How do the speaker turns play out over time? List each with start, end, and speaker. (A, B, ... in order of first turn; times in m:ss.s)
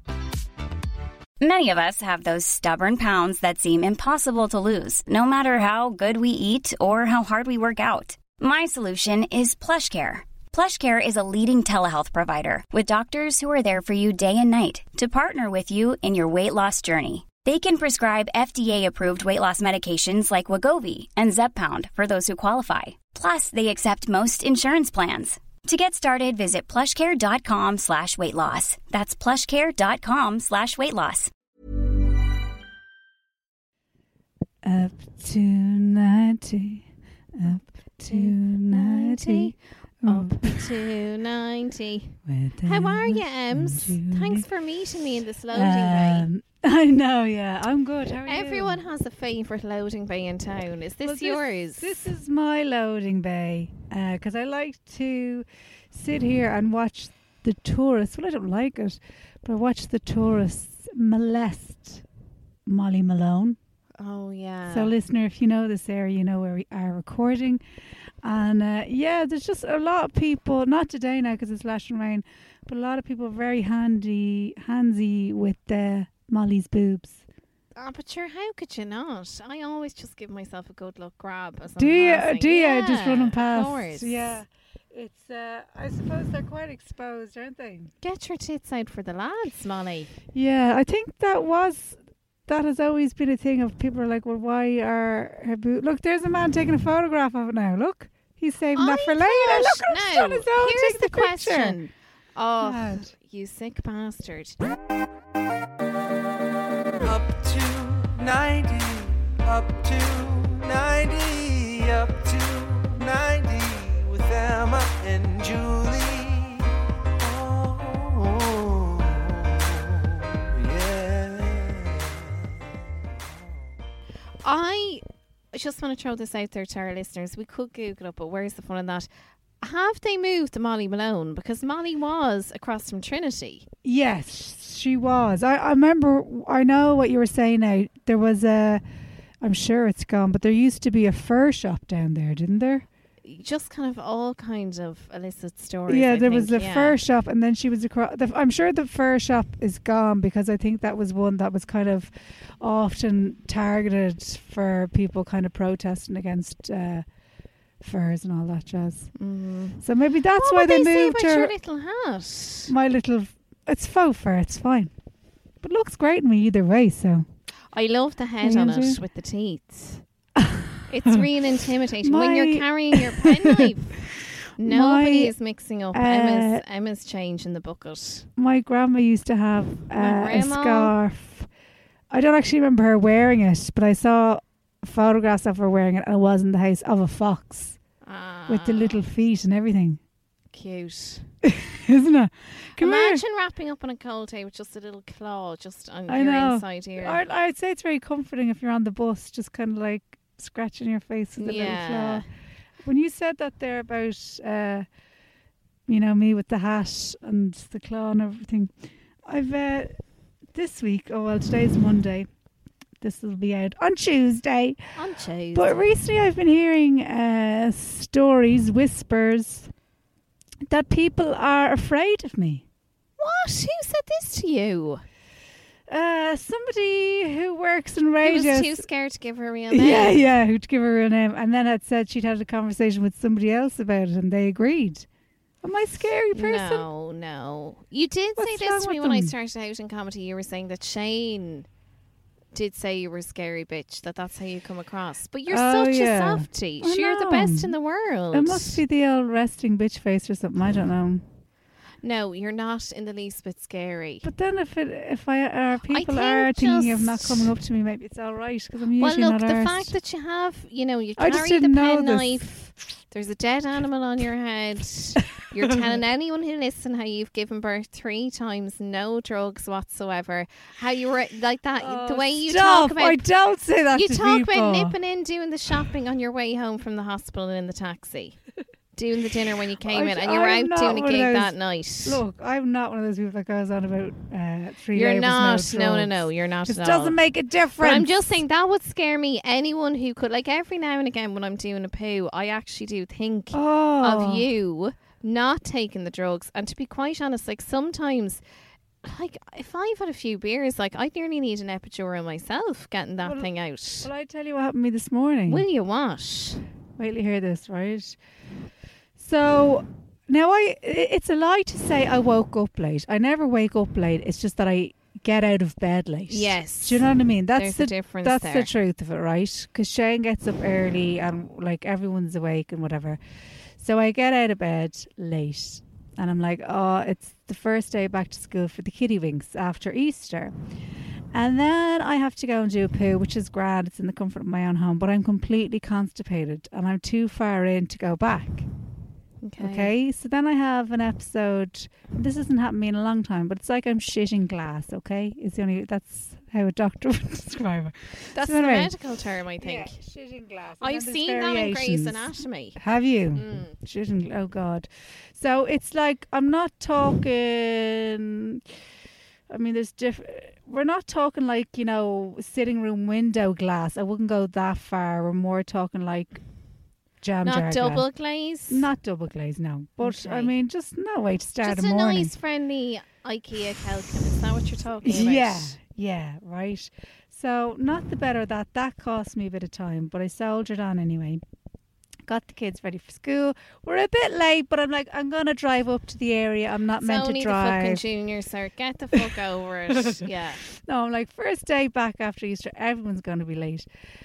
0:01.4-0:31.3 A
0:34.6-0:40.7 B
0:38.1-0:46.3 C
0:42.2-0:44.5 B
0:45.5-0:48.8 B
0:48.3-0:52.1 C
0:51.0-1:02.0 B
1:02.7-1:03.6 B
1:04.0-1:04.9 C
1:04.7-1:07.6 B
1:08.2-1:17.3 B
1:17.8-1:24.4 C
1:21.8-1:27.9 B
1:28.0-1:30.1 C
1:30.3-1:41.8 B
1:38.8-1:44.6 C
1:42.6-1:43.1 B
1:47.0-1:56.7 D
1:57.2-1:59.5 D
2:00.5-2:02.1 D
2:04.4-2:09.1 C
2:09.6-2:13.7 C
2:13.8-2:18.8 B
2:19.4-2:22.9 B
2:23.2-2:27.0 C
2:25.9-2:37.1 B
2:37.8-2:39.1 B
2:39.2-2:39.8 C
2:39.8-2:41.5 B
2:40.4-2:42.7 C
2:42.7-2:44.9 B
2:45.6-2:47.3 B
2:47.7-2:50.0 C
2:48.4-2:49.0 B
2:50.4-2:51.2 B
2:50.9-2:54.0 C
2:52.0-2:53.6 B
2:54.6-2:55.4 B
2:54.6-2:58.3 C
2:55.9-2:56.6 B
2:58.4-3:01.5 B
3:00.0-3:00.9 C
3:02.1-3:07.8 B
3:08.0-3:09.0 C
3:08.5-3:10.0 B
3:10.5-3:11.3 C
3:11.4-3:13.2 B
3:12.8-3:17.2 C
3:16.1-3:22.3 B
3:21.4-3:22.3 C
3:22.8-3:24.9 B
3:25.9-3:30.0 B
3:30.5-3:32.3 B
3:33.0-3:34.8 B
3:35.0-3:35.8 C
3:35.5-3:39.7 B
3:40.7-3:42.6 B
3:43.2-3:45.0 C
3:45.9-3:48.9 B
3:48.2-3:50.3 C
3:49.7-3:55.1 B
3:55.6-3:56.8 B
3:56.3-4:01.7 C
3:58.4-3:59.3 B
4:02.5-4:08.8 C
4:05.5-4:07.7 B
4:08.3-4:11.3 B
4:12.0-4:14.3 C
4:14.2-4:19.9 B
4:15.9-4:17.5 C
4:19.0-4:22.6 C
4:21.2-4:22.7 B
4:23.1-4:33.3 C
4:31.8-4:35.0 B
4:33.9-4:38.4 C
4:38.9-4:42.2 C
4:39.8-4:48.4 B
4:44.9-4:47.2 C
4:47.8-4:58.4 C
4:53.5-4:54.5 B
4:59.0-5:04.1 C
5:03.2-5:03.5 B
5:04.0-5:05.6 B
5:05.5-5:06.6 C
5:07.0-5:08.2 B
5:09.2-5:23.2 B
5:16.3-5:18.7 C
5:23.8-5:30.6 B
5:31.3-5:38.7 B
5:39.4-5:39.9 C
5:39.6-5:48.9 B
5:48.3-5:50.0 C
5:49.6-5:58.6 B
5:50.8-5:52.8 C
5:53.3-5:53.8 C
5:59.5-6:06.4 B
6:07.2-6:08.1 B
6:07.4-6:08.9 C
6:08.7-6:12.3 B
6:10.0-6:10.5 C
6:11.6-6:15.8 C
6:15.0-6:21.4 B
6:22.3-6:28.0 B
6:27.0-6:30.6 C
6:29.9-6:33.9 B